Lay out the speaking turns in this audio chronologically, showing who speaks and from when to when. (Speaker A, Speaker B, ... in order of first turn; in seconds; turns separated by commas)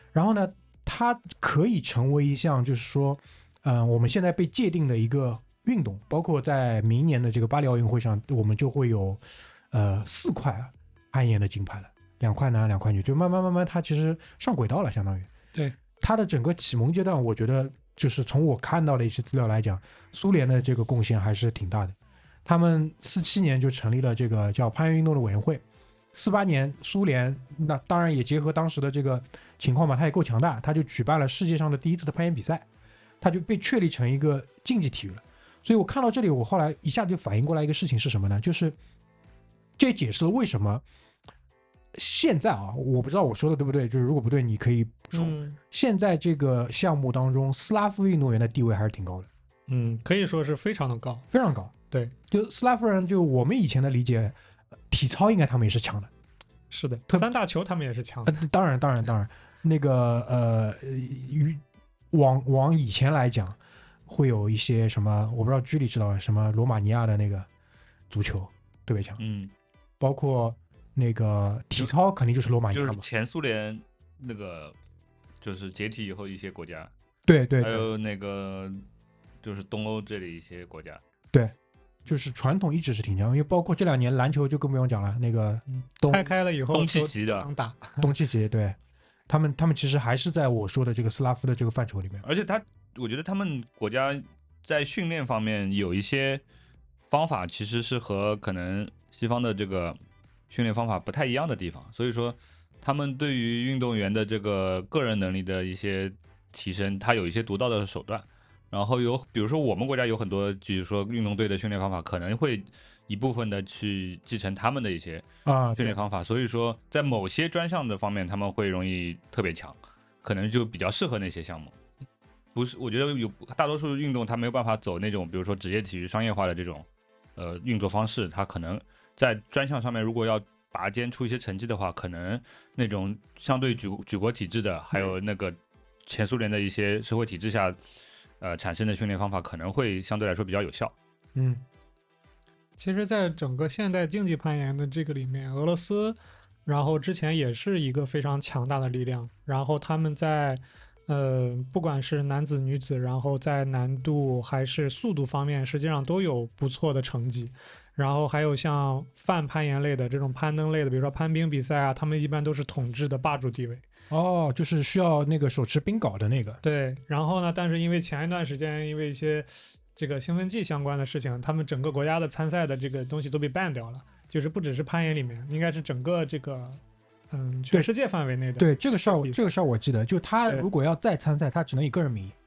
Speaker A: 0.1-15.3, Speaker A: 16.0-32.7, Speaker A: 33.2-38.8, Speaker A: 39.8-40.8, Speaker A: 41.9-49.3, Speaker B: 45.1-45.6, Speaker B: 49.7-51.3, Speaker A: 51.3-51.7, Speaker A: 52.3-54.4, Speaker A: 54.9-56.1, Speaker B: 56.7-58.4, Speaker A: 58.2-67.5, Speaker A: 68.1-69.2, Speaker C: 69.2-69.5, Speaker A: 70.0-73.0, Speaker C: 72.7-74.8, Speaker C: 75.4-76.9, Speaker A: 77.3-77.9, Speaker C: 77.6-78.8, Speaker C: 79.4-81.0, Speaker A: 81.3-86.3, Speaker B: 85.7-88.1, Speaker C: 86.7-87.5, Speaker A: 88.0-88.8, Speaker A: 89.3-92.2, Speaker C: 92.2-96.4, Speaker C: 97.1-100.0, Speaker C: 100.5-121.8, Speaker A: 115.5-116.0, Speaker C: 122.5-137.8, Speaker C: 138.4-140.9, Speaker A: 141.3-141.6, Speaker B: 142.8-163.8, Speaker A: 164.1-166.6, Speaker B: 166.6-179.4, Speaker A: 178.6-182.3